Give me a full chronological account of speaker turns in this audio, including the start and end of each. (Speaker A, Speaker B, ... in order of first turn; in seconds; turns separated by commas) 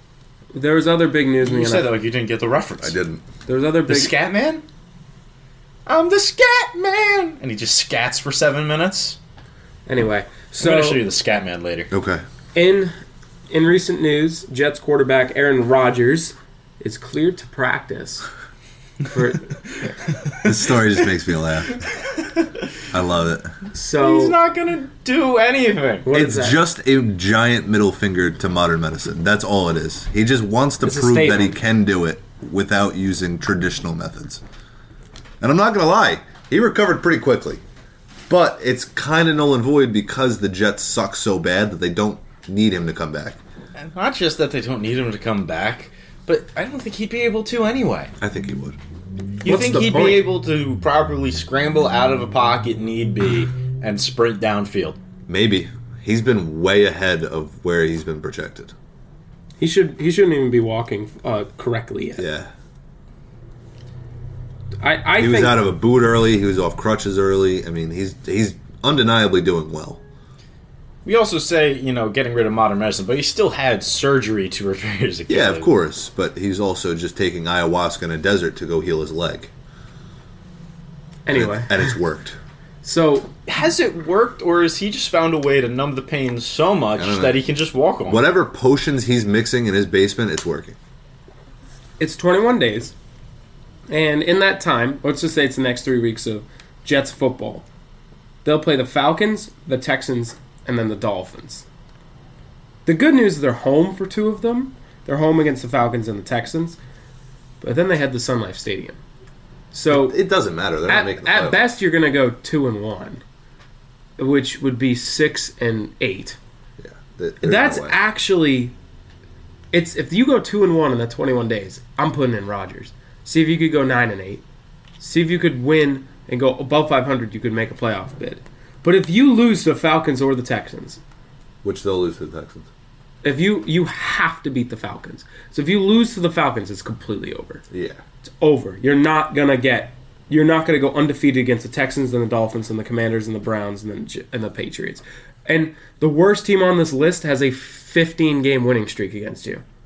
Speaker A: 0.5-1.9, Speaker B: 1.4-3.0, Speaker C: 2.8-3.2, Speaker A: 3.5-4.1, Speaker B: 3.9-4.6, Speaker B: 5.8-9.2, Speaker A: 9.9-11.0, Speaker B: 10.6-11.9, Speaker C: 11.9-12.2, Speaker A: 12.5-12.9, Speaker A: 13.5-18.2, Speaker A: 19.1-19.9, Speaker C: 20.4-21.8, Speaker B: 22.0-22.5, Speaker C: 22.9-23.5, Speaker A: 23.7-24.4, Speaker B: 24.0-26.1, Speaker A: 26.0-26.6, Speaker C: 26.1-34.4, Speaker A: 30.8-31.6, Speaker C: 35.4-37.6, Speaker C: 38.3-43.4, Speaker B: 43.8-48.1, Speaker C: 48.2-48.8, Speaker B: 49.4-55.0, Speaker A: 49.4-50.2, Speaker C: 55.3-58.7, Speaker A: 59.6-62.2, Speaker C: 62.2-62.5, Speaker A: 64.8-65.6, Speaker C: 65.2-70.0, Speaker B: 71.0-75.7, Speaker C: 75.3-79.5, Speaker A: 81.2-81.9, Speaker C: 81.3-82.4, Speaker A: 82.8-83.3, Speaker B: 83.5-88.2, Speaker C: 87.0-87.4, Speaker C: 88.0-90.8, Speaker A: 92.0-92.9, Speaker A: 93.9-97.7, Speaker A: 98.4-101.6, Speaker A: 102.8-106.8, Speaker A: 107.6-109.0, Speaker A: 109.7-110.2, Speaker C: 109.9-111.7, Speaker A: 110.8-113.2, Speaker A: 114.2-116.4, Speaker C: 116.8-118.0, Speaker A: 117.4-118.7, Speaker A: 119.7-124.4, Speaker A: 125.0-131.0, Speaker C: 131.6-132.7, Speaker A: 133.2-137.6, Speaker C: 137.7-138.0, Speaker A: 138.2-149.6